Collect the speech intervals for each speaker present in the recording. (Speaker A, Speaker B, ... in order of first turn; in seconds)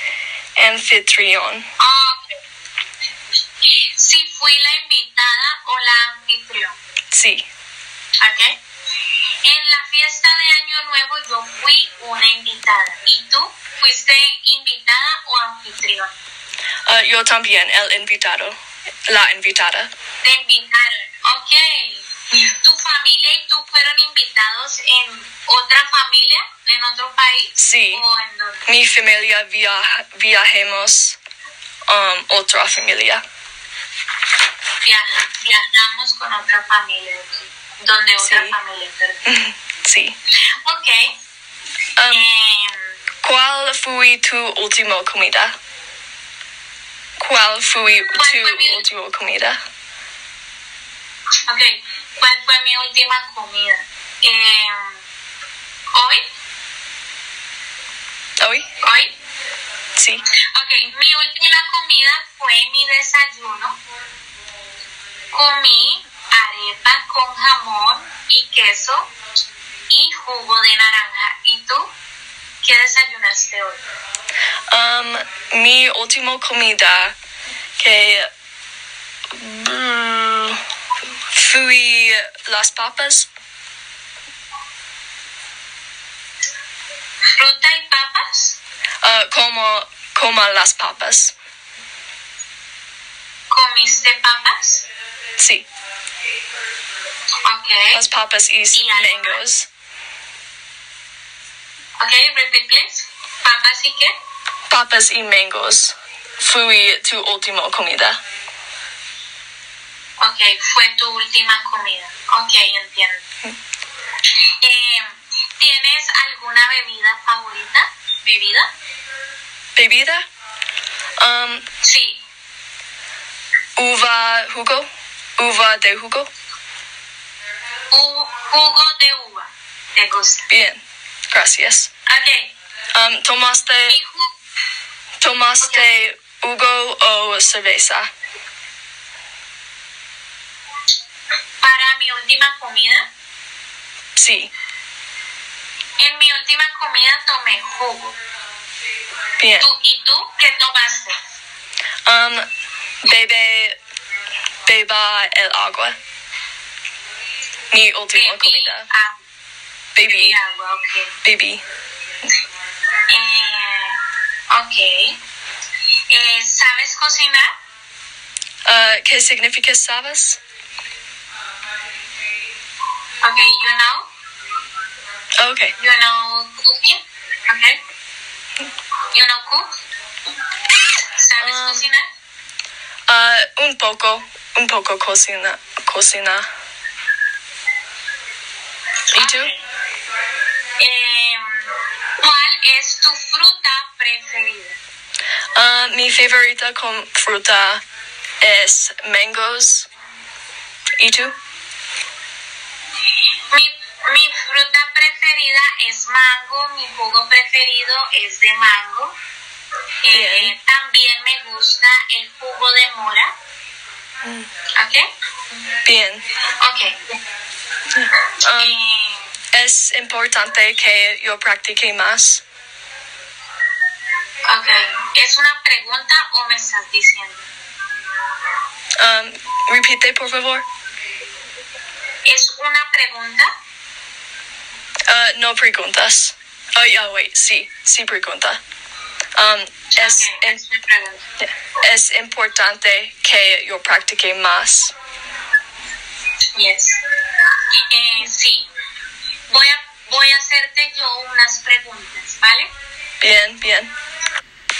Speaker A: 0.6-1.7, 7.1-7.4, 16.9-18.6, 19.1-19.9, 27.6-28.0, 28.7-31.2, 31.9-33.2, 38.2-38.5, 39.2-40.1, 42.0-42.2, 43.2-45.5, 47.2-49.6, 58.4-58.6, 60.0-60.2, 74.7-77.1, 77.8-78.3, 79.3-80.6, 81.3-83.3, 89.0-91.3, 95.4-95.7, 97.9-99.7, 104.7-108.2, 119.8-120.2, 121.2-121.6, 123.8-124.9, 125.4-126.3, 130.5-131.9, 132.9-134.0, 135.2-138.1, 144.2-144.5, 149.4-149.7, 152.1-152.4, 153.0-153.8, 154.7-155.9, 157.7-158.9, 159.9-160.4, 161.2-161.6, 168.7-170.4, 175.4-175.7, 181.4-181.9, 183.1-186.5, 189.1-189.5, 195.5-197.8, 198.4-199.9, 201.0-201.3, 210.1-210.5, 214.2-214.5, 215.8-216.2, 217.9-218.8, 219.5-222.4, 229.0-230.6, 235.1-238.6, 239.4-240.6, 241.4-244.9, 253.2-253.9
Speaker B: 1.8-2.2, 4.0-6.8, 8.2-8.6, 9.4-16.2, 20.2-28.6, 34.8-39.2, 40.5-41.1, 42.1-43.0, 48.1-48.9, 51.5-55.0, 55.9-56.2, 58.8-59.1, 60.5-63.8, 65.3-69.1, 69.9-71.9, 72.6-73.8, 87.4-88.5, 93.5-94.8, 97.4-98.0, 98.7-99.4, 102.0-104.1, 110.2-113.2, 114.6-118.7, 121.8-122.2, 127.9-130.4, 132.1-132.5, 133.9-134.3, 135.6-135.9, 141.6-143.1, 146.0-148.2, 149.6-151.2, 158.1-159.1, 160.0-161.2, 163.1-164.0, 164.5-165.2, 166.1-167.5, 173.2-174.1, 175.8-177.8, 179.1-179.7, 181.2-182.0, 189.1-189.6, 190.8-194.8, 203.5-209.1, 210.0-213.3, 214.8-215.7, 216.6-217.0, 218.5-219.3, 224.4-227.5, 232.2-233.5, 239.9-241.2, 246.5-247.0, 247.9-248.7, 249.5-252.7